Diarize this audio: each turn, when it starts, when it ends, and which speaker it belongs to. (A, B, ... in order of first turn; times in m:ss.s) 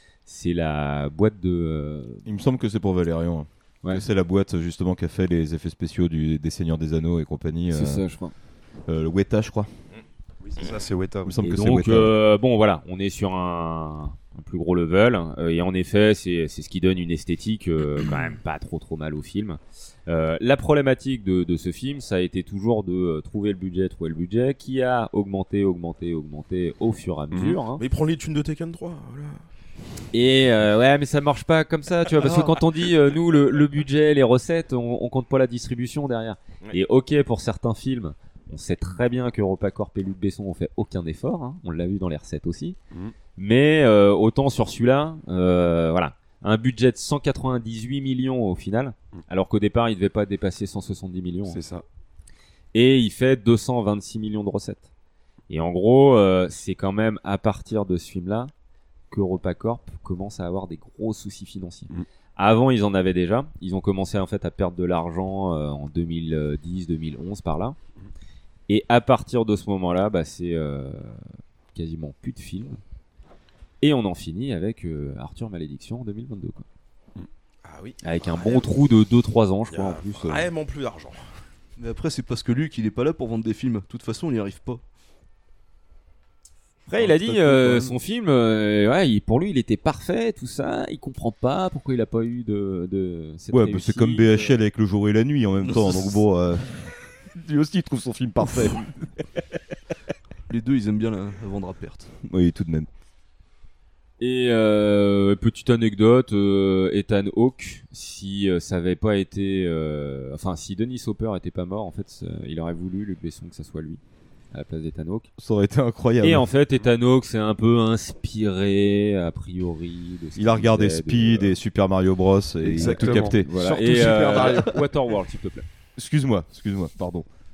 0:00.3-0:02.2 A
0:02.2-0:08.0 B
0:07.7-0:08.3 A
0:08.9-0:09.7 B
0:10.4-0:11.4 C
0:11.2-0:12.1 B
0:11.4-0:27.8 A
0:27.4-0:29.4 D
0:30.1-0:42.8 A
0:43.4-0:51.6 A
0:51.5-0:51.8 C
0:52.7-0:54.9 A
0:55.5-0:58.5 A
0:59.1-1:07.8 A
1:08.7-1:12.8 A
1:13.8-1:16.6 A
1:17.6-1:18.7 D
1:18.0-1:20.5 A
1:19.7-1:21.2 D
1:21.8-1:24.8 E
1:26.9-1:34.6 A
1:27.0-1:28.0 E
1:33.5-1:39.4 B
1:35.7-1:36.1 E
1:40.5-1:42.1 E
1:42.2-1:42.9 B
1:44.2-1:54.0 A
1:54.5-1:55.3 A
1:55.4-1:56.5 B
1:56.2-2:01.6 A
2:00.4-2:03.5 B
2:02.6-2:04.8 C
2:02.6-2:05.7 A
2:06.0-2:07.3 B